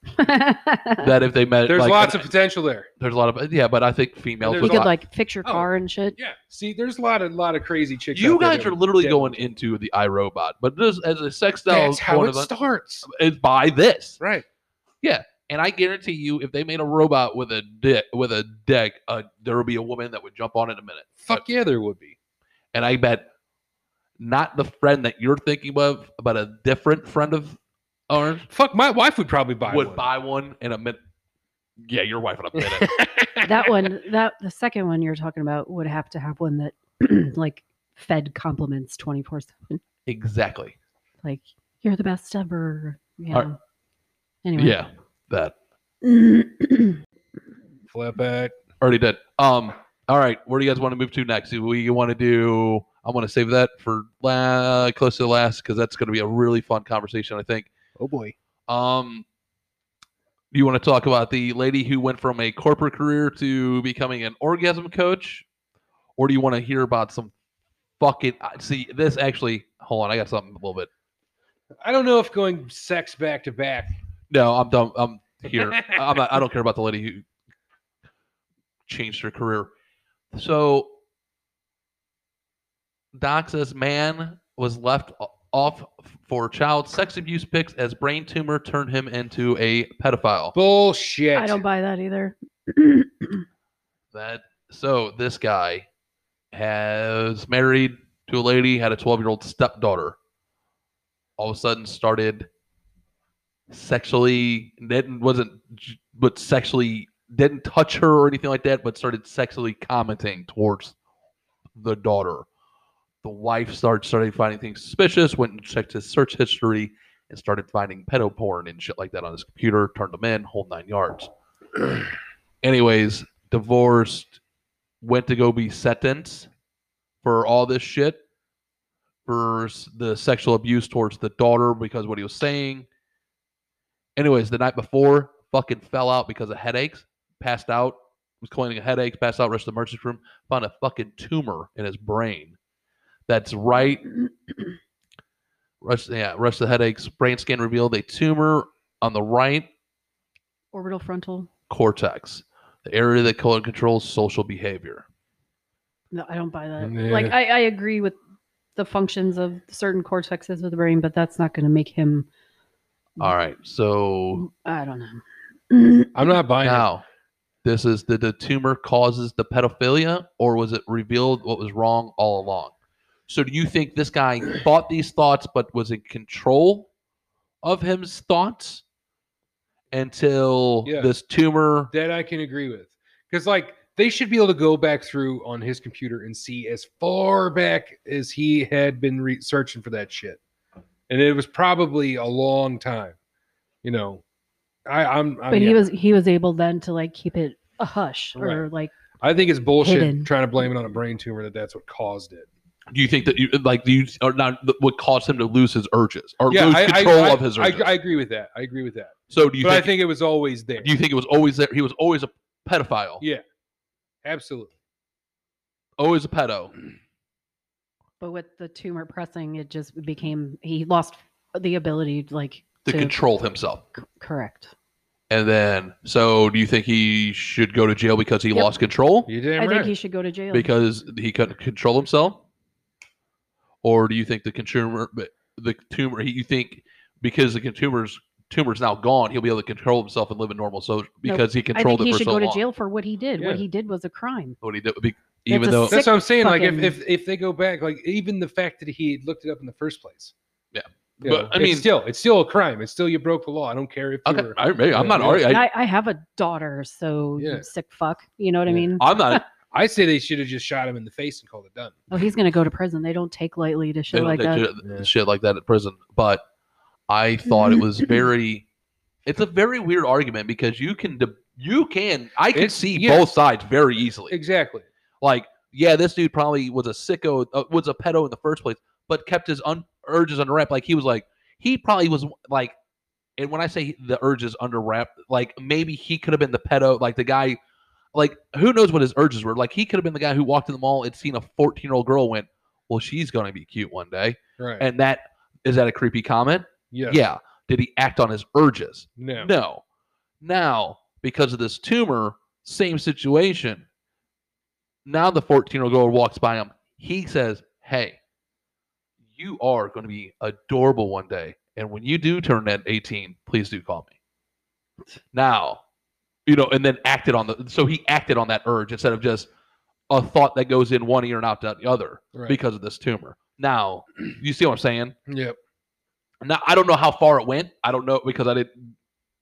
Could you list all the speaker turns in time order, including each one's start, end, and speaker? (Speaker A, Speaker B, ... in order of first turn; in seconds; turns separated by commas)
Speaker A: 0.1-1.1, Speaker B: 1.0-2.3, Speaker C: 1.6-2.9, Speaker B: 3.0-4.9, Speaker C: 4.4-4.9, Speaker A: 4.5-6.2, Speaker C: 5.4-9.5, Speaker B: 8.1-12.5, Speaker C: 11.7-13.1, Speaker B: 13.0-14.2, Speaker C: 14.2-14.4, Speaker B: 15.0-21.4, Speaker C: 21.2-22.1, Speaker B: 22.7-23.3, Speaker B: 24.2-27.6, Speaker B: 28.1-28.5, Speaker C: 28.5-30.1, Speaker B: 29.7-31.0, Speaker B: 31.8-33.0, Speaker C: 32.6-33.9, Speaker A: 33.4-39.8, Speaker B: 40.1-40.7, Speaker A: 41.2-43.5, Speaker A: 44.4-44.8, Speaker B: 44.5-45.5, Speaker A: 46.0-47.0, Speaker C: 47.9-48.6, Speaker B: 48.8-57.7, Speaker C: 58.0-58.4, Speaker B: 58.7-59.2, Speaker B: 60.5-65.5, Speaker B: 66.2-67.3, Speaker B: 68.0-70.9, Speaker C: 71.8-73.9, Speaker B: 74.3-77.2, Speaker C: 75.5-76.0, Speaker B: 78.9-79.7, Speaker B: 80.3-80.9, Speaker B: 83.1-90.5, Speaker C: 90.5-91.6, Speaker A: 91.3-93.4, Speaker B: 94.1-95.9, Speaker B: 96.5-100.2, Speaker B: 101.4-102.5, Speaker B: 103.7-110.9, Speaker B: 111.8-112.5, Speaker B: 113.2-121.3, Speaker B: 122.6-124.4, Speaker B: 125.0-126.5, Speaker B: 127.2-128.2, Speaker B: 129.2-132.9, Speaker B: 134.2-142.6, Speaker B: 143.3-144.1, Speaker B: 145.8-149.7, Speaker A: 150.7-151.5, Speaker B: 151.7-155.0, Speaker A: 156.1-158.2, Speaker C: 156.8-157.3, Speaker A: 158.8-162.3, Speaker B: 163.2-164.4, Speaker A: 164.4-166.3, Speaker C: 166.1-166.9, Speaker B: 166.6-167.0, Speaker B: 167.6-172.7, Speaker B: 173.3-176.9, Speaker B: 177.6-178.8, Speaker B: 179.9-181.9, Speaker C: 180.8-181.1, Speaker C: 181.9-190.4, Speaker C: 191.1-193.2, Speaker C: 193.8-194.2, Speaker C: 194.8-195.8, Speaker A: 195.5-198.9, Speaker C: 198.3-198.7, Speaker C: 199.2-202.5, Speaker A: 199.8-200.3, Speaker B: 202.9-207.9, Speaker C: 206.5-210.9, Speaker B: 209.3-209.9, Speaker B: 210.8-213.2, Speaker C: 214.2-214.7, Speaker B: 216.0-216.7, Speaker A: 218.2-223.2, Speaker B: 222.8-223.8, Speaker A: 224.0-224.7, Speaker B: 225.3-229.3, Speaker C: 229.3-229.9, Speaker A: 229.6-230.7, Speaker B: 230.5-232.4, Speaker B: 233.8-242.6, Speaker A: 241.2-244.6, Speaker C: 243.4-243.6, Speaker B: 244.6-246.0, Speaker A: 245.5-246.9, Speaker C: 245.9-250.3, Speaker B: 250.7-251.9, Speaker C: 251.2-255.5, Speaker B: 254.2-255.7, Speaker A: 255.4-259.4, Speaker C: 257.4-257.7, Speaker C: 258.7-258.9, Speaker B: 259.0-259.4, Speaker C: 259.7-262.0, Speaker A: 262.1-264.6, Speaker B: 264.1-266.4, Speaker C: 264.8-265.1, Speaker B: 267.1-268.6, Speaker B: 269.2-274.4, Speaker C: 272.5-273.4, Speaker C: 274.3-274.9, Speaker B: 275.2-282.7, Speaker B: 283.4-287.6, Speaker B: 288.1-299.8, Speaker C: 294.6-294.9, Speaker C: 296.9-297.2, Speaker C: 299.2-299.5, Speaker B: 300.4-303.9, Speaker B: 305.1-308.2, Speaker B: 309.3-314.1, Speaker B: 315.3-315.8, Speaker B: 316.4-319.5, Speaker B: 320.1-325.1, Speaker C: 322.3-322.6, Speaker C: 325.3-325.6, Speaker B: 326.4-328.9